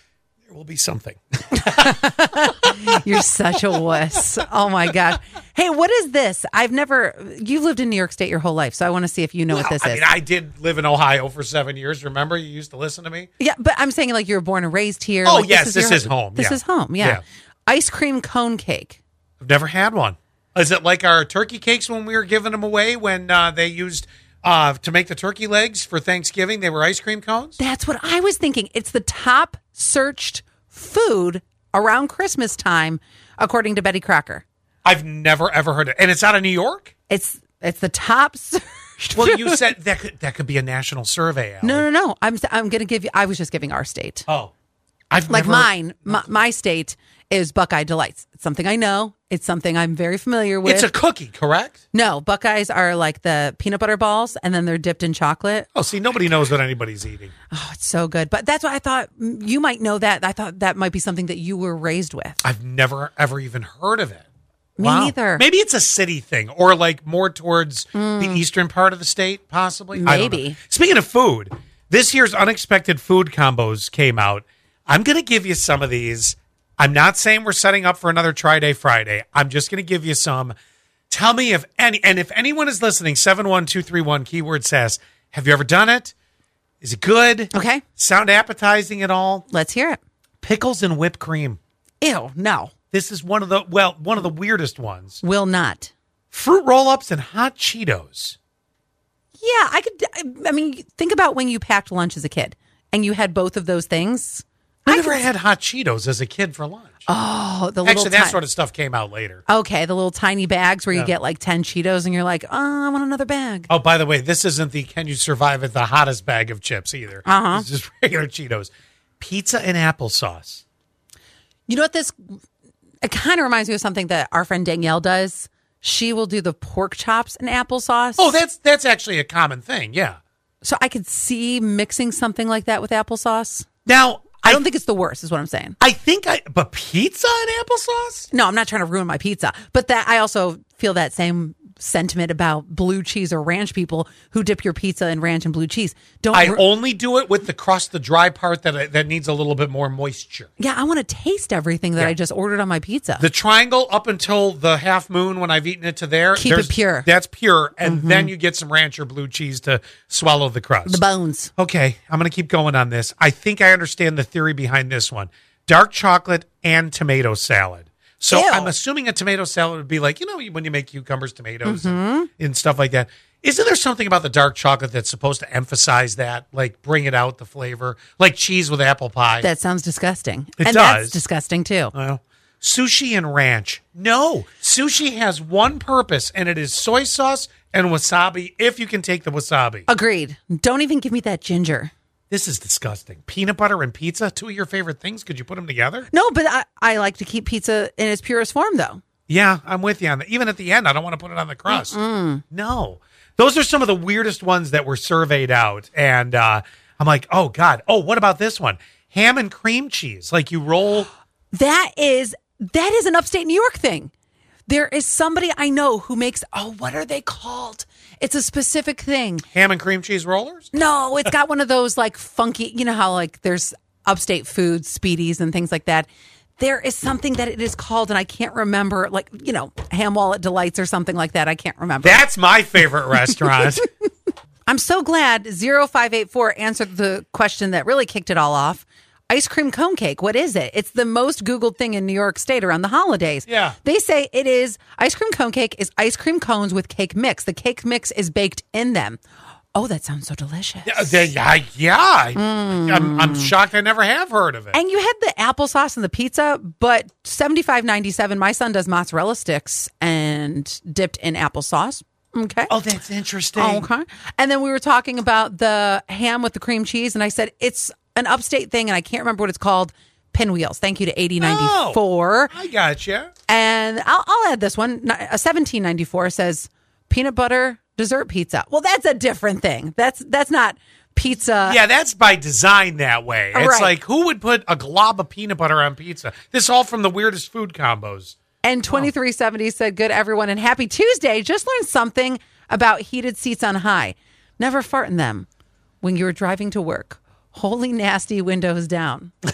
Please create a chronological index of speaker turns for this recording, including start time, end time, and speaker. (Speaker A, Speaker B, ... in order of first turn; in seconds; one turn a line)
Speaker A: 0.5-3.0
Speaker B: 1.6-10.1
Speaker A: 9.5-13.3
Speaker B: 13.4-19.0
Speaker A: 15.2-17.2
Speaker A: 19.4-27.6
Speaker B: 27.6-34.5
Speaker A: 34.9-36.9
Speaker B: 37.1-39.6
Speaker A: 39.2-41.9
Speaker B: 41.6-44.3
Speaker A: 44.3-44.5
Speaker A: 45.1-46.2
Speaker B: 45.3-50.9
Speaker A: 50.6-51.8
Speaker B: 51.9-55.7
Speaker A: 55.8-57.3
Speaker B: 57.5-62.4
Speaker A: 62.4-64.2
Speaker B: 64.8-65.4
Speaker A: 64.8-80.5
Speaker B: 67.9-68.4
Speaker B: 70.0-70.6
Speaker A: 81.1-86.1
Speaker A: 86.8-89.5
Speaker B: 87.5-87.8
Speaker B: 89.5-90.0
Speaker A: 90.4-91.6
Speaker B: 92.0-92.7
Speaker A: 92.9-95.2
Speaker B: 95.2-95.9
Speaker A: 96.3-98.4
Speaker B: 99.4-105.2
Speaker A: 104.9-107.0
Speaker B: 107.1-108.4
Speaker A: 107.8-109.4
Speaker B: 109.5-113.7
Speaker A: 113.7-120.6
Speaker B: 117.3-117.7
Speaker B: 121.7-122.3
Speaker B: 123.0-128.3
Speaker A: 128.2-130.2
Speaker B: 130.6-133.7
Speaker A: 133.9-134.6
Speaker B: 134.4-135.8
Speaker A: 135.8-138.3
Speaker B: 138.3-146.6
Speaker A: 146.3-150.5
Speaker B: 150.6-153.2
Speaker A: 153.2-161.0
Speaker B: 156.4-157.1
Speaker B: 157.8-158.3
Speaker B: 160.9-161.5
Speaker A: 161.6-179.5
Speaker B: 168.3-168.7
Speaker B: 171.7-172.3
Speaker B: 179.4-181.9
Speaker A: 180.6-181.2
Speaker A: 181.9-189.9
Speaker B: 189.9-191.9
Speaker A: 192.3-196.1
Speaker B: 196.1-199.0
Speaker A: 199.3-202.0
Speaker B: 201.7-202.4
Speaker A: 202.5-211.1
Speaker B: 211.5-214.1
Speaker B: 214.7-219.5
Speaker A: 219.5-220.7
Speaker B: 220.7-232.2
Speaker A: 232.0-233.9
Speaker B: 234.7-249.2
Speaker A: 243.5-243.8
Speaker B: 249.7-251.3
Speaker A: 250.8-254.8
Speaker B: 252.4-253.5
Speaker B: 254.7-262.7
Speaker A: 262.7-263.9
Speaker B: 263.6-272.5
Speaker A: 271.4-272.0
Speaker A: 272.5-273.3
Speaker B: 273.5-281.8
Speaker A: 281.6-288.4
Speaker B: 283.5-283.9
Speaker B: 288.6-295.5
Speaker B: 296.0-299.4